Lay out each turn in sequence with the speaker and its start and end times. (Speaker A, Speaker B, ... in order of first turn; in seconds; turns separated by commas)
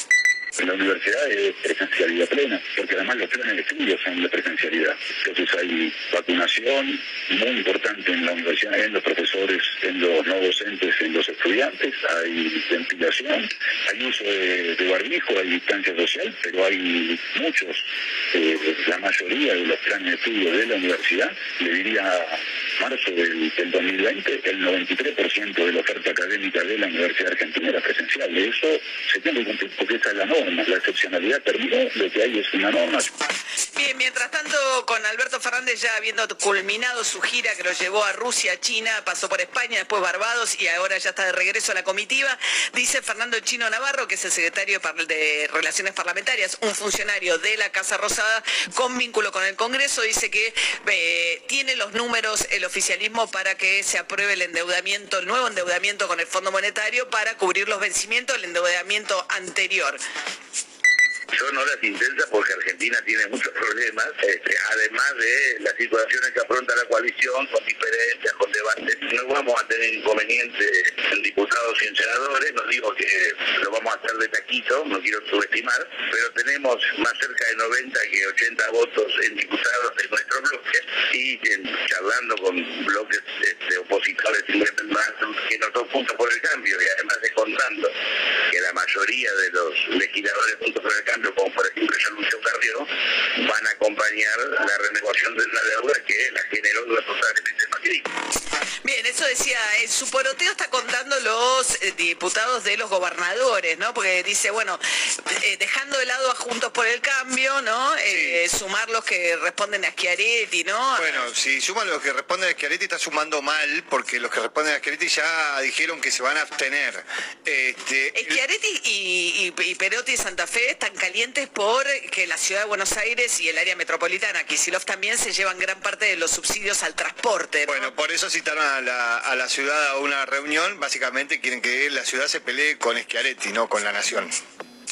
Speaker A: 0.6-33.1, Speaker B: 33.8-60.0, Speaker C: 61.3-87.9, Speaker C: 88.5-98.1, Speaker B: 98.8-111.3, Speaker D: 108.1-108.4, Speaker D: 111.0-118.4, Speaker B: 118.2-127.9, Speaker D: 127.7-134.3